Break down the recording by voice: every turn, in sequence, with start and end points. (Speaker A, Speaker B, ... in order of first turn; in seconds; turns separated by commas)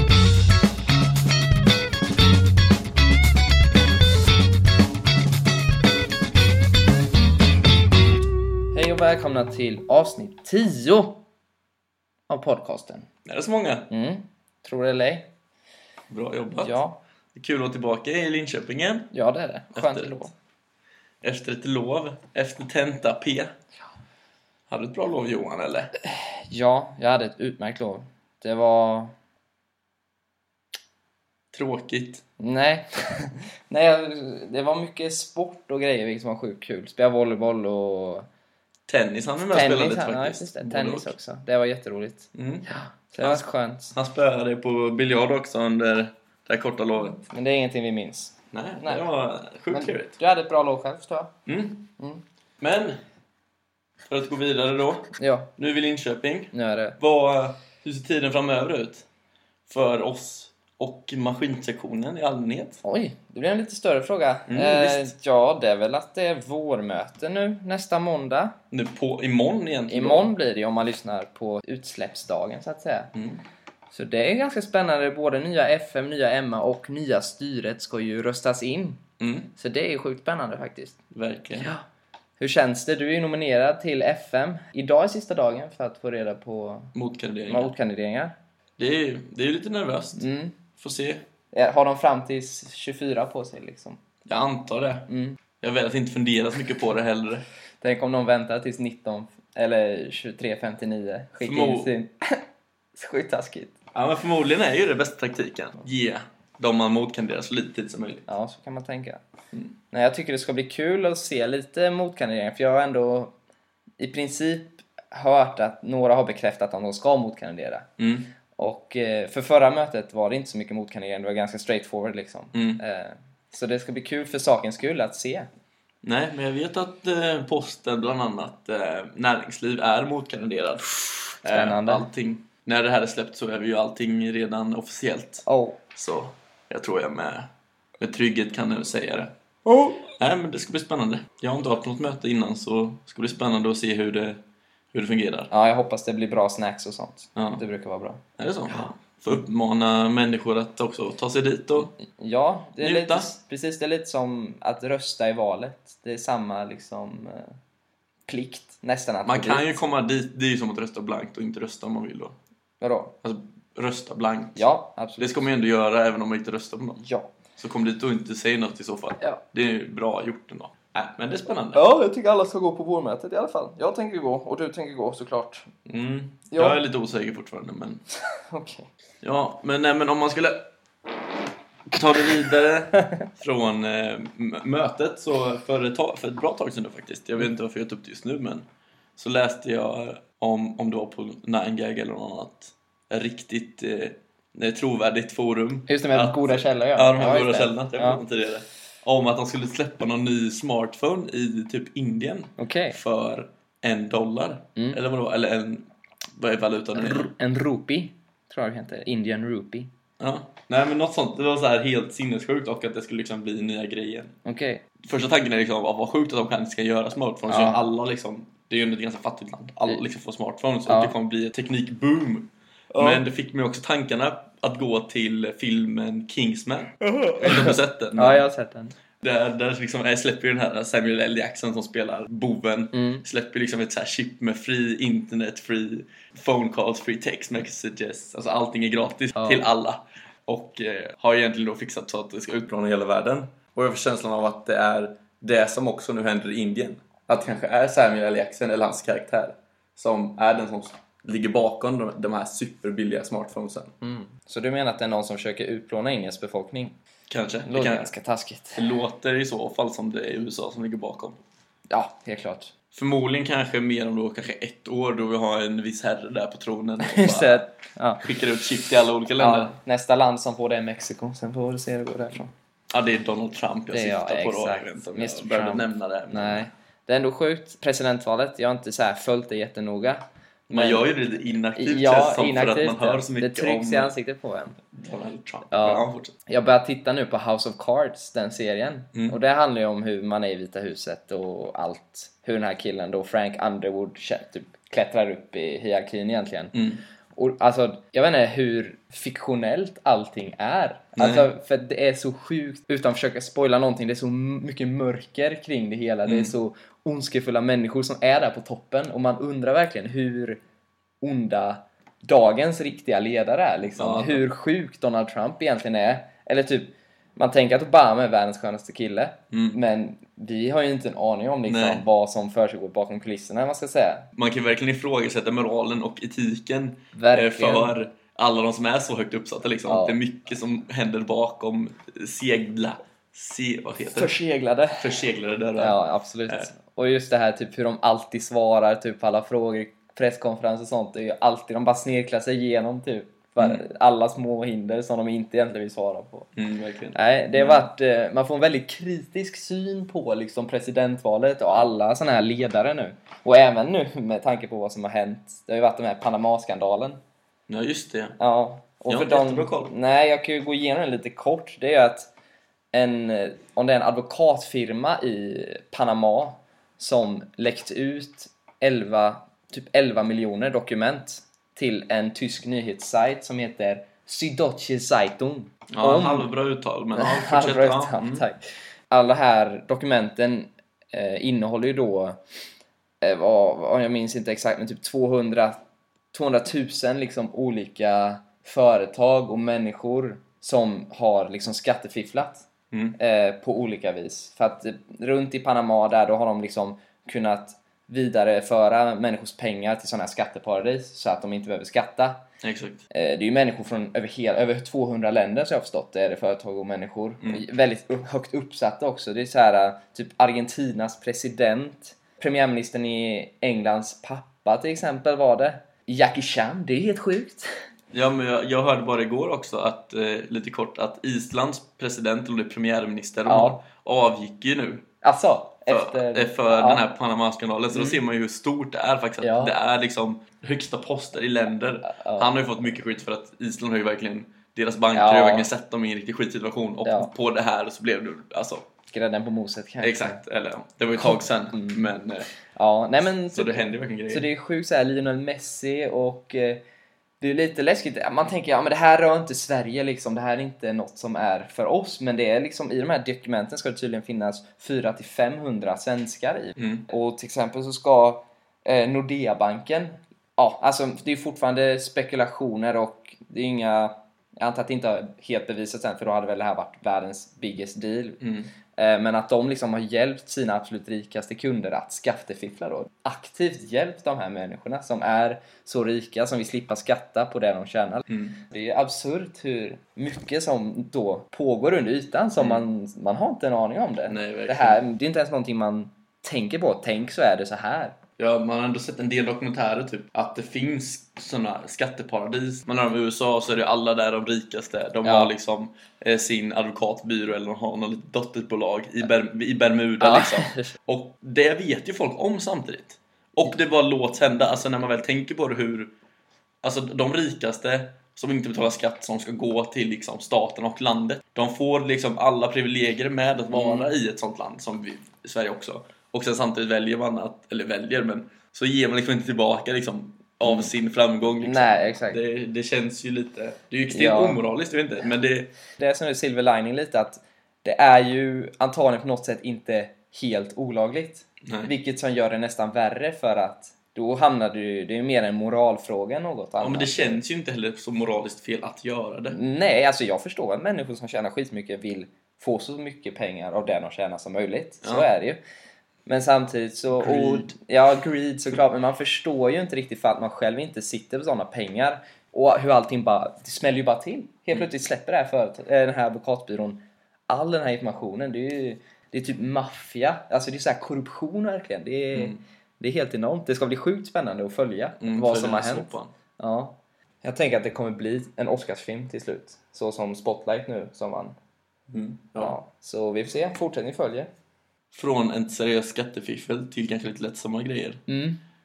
Speaker A: 8.7-11.2, Speaker A: 12.3-13.1, Speaker B: 13.2-13.9, Speaker A: 13.9-15.3, Speaker B: 16.1-16.8, Speaker A: 16.6-17.0, Speaker B: 17.3-19.1, Speaker A: 19.1-20.3, Speaker B: 19.7-20.3, Speaker B: 21.2-23.5, Speaker B: 24.7-25.9, Speaker A: 26.0-29.1, Speaker B: 31.5-32.2, Speaker A: 32.4-38.2, Speaker B: 38.9-41.1, Speaker A: 39.4-43.9, Speaker B: 42.3-42.6, Speaker B: 43.2-47.2, Speaker A: 47.2-49.0, Speaker B: 48.5-50.2, Speaker A: 49.7-51.3, Speaker B: 51.5-51.9, Speaker B: 52.6-53.0, Speaker B: 54.1-59.0, Speaker A: 55.2-55.5, Speaker A: 56.5-57.0, Speaker B: 59.7-62.8, Speaker A: 62.8-68.5, Speaker B: 64.5-65.1, Speaker B: 68.7-70.3, Speaker A: 69.9-73.1, Speaker B: 73.1-73.4, Speaker A: 73.9-79.0, Speaker B: 79.2-79.5, Speaker A: 79.5-81.0, Speaker B: 81.1-81.7, Speaker A: 81.5-81.8, Speaker A: 82.4-86.9, Speaker B: 86.9-87.7, Speaker A: 87.5-88.3, Speaker B: 88.8-90.2, Speaker A: 90.2-90.5, Speaker B: 90.8-91.2, Speaker A: 91.5-94.0, Speaker B: 94.2-95.1, Speaker A: 95.1-95.4, Speaker B: 95.6-97.5, Speaker A: 97.8-102.4, Speaker B: 101.4-101.9, Speaker A: 102.9-103.7, Speaker B: 103.9-108.3, Speaker A: 108.3-109.2, Speaker A: 109.9-113.3, Speaker A: 114.0-117.9, Speaker B: 118.0-118.3, Speaker A: 118.5-125.5, Speaker B: 122.5-122.8, Speaker B: 126.0-135.4, Speaker A: 131.4-132.1, Speaker A: 135.4-135.8, Speaker B: 135.9-139.3, Speaker A: 139.7-140.1, Speaker B: 140.2-144.4, Speaker B: 144.9-145.5, Speaker A: 145.5-148.9, Speaker B: 147.3-147.6, Speaker B: 148.4-151.9, Speaker A: 152.0-157.5, Speaker B: 152.8-153.3, Speaker A: 158.3-159.8, Speaker B: 159.2-162.3, Speaker A: 162.8-163.1, Speaker B: 163.2-164.7, Speaker A: 164.6-165.5, Speaker B: 165.2-167.0, Speaker A: 167.0-167.3, Speaker B: 167.6-171.9, Speaker A: 171.7-175.7, Speaker B: 175.8-178.0, Speaker A: 176.5-176.8, Speaker A: 178.4-178.9, Speaker B: 179.2-180.7, Speaker B: 181.9-188.6, Speaker B: 189.2-207.3, Speaker A: 195.9-198.2, Speaker A: 202.6-203.0, Speaker A: 206.9-209.9, Speaker B: 210.2-214.3, Speaker A: 214.4-214.8, Speaker B: 215.0-228.4, Speaker A: 217.5-217.8, Speaker A: 220.9-221.1, Speaker A: 222.9-223.2, Speaker A: 227.0-228.9, Speaker B: 229.2-253.9, Speaker A: 232.9-233.2, Speaker A: 239.3-239.6, Speaker A: 254.0-256.9, Speaker B: 257.3-258.1, Speaker A: 257.7-258.8, Speaker B: 258.8-261.4, Speaker A: 261.9-262.7, Speaker B: 262.9-267.6, Speaker A: 267.0-268.2, Speaker B: 268.2-269.8, Speaker A: 269.4-272.5, Speaker B: 272.9-276.7, Speaker A: 273.9-281.1, Speaker B: 280.7-284.1, Speaker A: 281.8-284.8, Speaker B: 284.9-286.3, Speaker A: 285.7-296.8, Speaker B: 296.7-297.0, Speaker A: 297.3-310.6, Speaker B: 301.1-301.5, Speaker B: 306.2-306.6, Speaker A: 311.2-324.3, Speaker B: 313.9-314.4, Speaker B: 319.5-319.8, Speaker B: 321.6-322.0, Speaker B: 324.3-334.3, Speaker A: 327.1-327.9, Speaker A: 329.9-330.1, Speaker A: 334.1-335.2, Speaker B: 334.9-336.7, Speaker A: 335.8-346.5, Speaker B: 346.6-347.9, Speaker A: 347.1-357.2, Speaker B: 357.7-358.4, Speaker A: 358.4-362.3, Speaker B: 359.1-359.9, Speaker A: 362.9-376.5, Speaker B: 375.9-378.5, Speaker A: 377.1-382.4, Speaker A: 383.2-385.8, Speaker A: 386.3-402.4, Speaker B: 392.9-393.2, Speaker B: 402.6-403.0, Speaker A: 403.1-417.7, Speaker B: 418.1-425.0, Speaker A: 423.4-423.8, Speaker A: 425.2-427.0, Speaker B: 425.9-438.9, Speaker A: 427.9-428.2, Speaker A: 429.4-429.7, Speaker A: 432.1-433.0, Speaker A: 435.1-435.7, Speaker A: 437.0-437.3, Speaker A: 439.1-440.4, Speaker B: 440.0-442.5, Speaker A: 441.2-442.0, Speaker A: 442.8-446.8, Speaker B: 443.5-444.5, Speaker A: 447.4-468.4, Speaker B: 456.8-457.0, Speaker B: 468.4-468.7, Speaker A: 468.9-488.1, Speaker B: 478.3-478.6, Speaker B: 482.6-482.8, Speaker B: 484.2-485.0, Speaker B: 488.4-506.1, Speaker A: 495.2-495.5, Speaker A: 500.2-500.9, Speaker B: 506.8-525.7, Speaker A: 513.7-514.1, Speaker A: 520.6-520.9, Speaker A: 521.6-522.4, Speaker A: 524.1-524.6, Speaker A: 526.0-537.4, Speaker B: 531.6-531.9, Speaker B: 536.8-539.6, Speaker A: 539.5-545.6, Speaker B: 545.0-545.3, Speaker A: 546.2-571.5, Speaker B: 547.1-547.7, Speaker B: 562.3-562.6, Speaker B: 565.2-566.3, Speaker B: 572.1-572.8, Speaker A: 572.6-574.5, Speaker B: 575.1-578.2, Speaker A: 578.3-578.6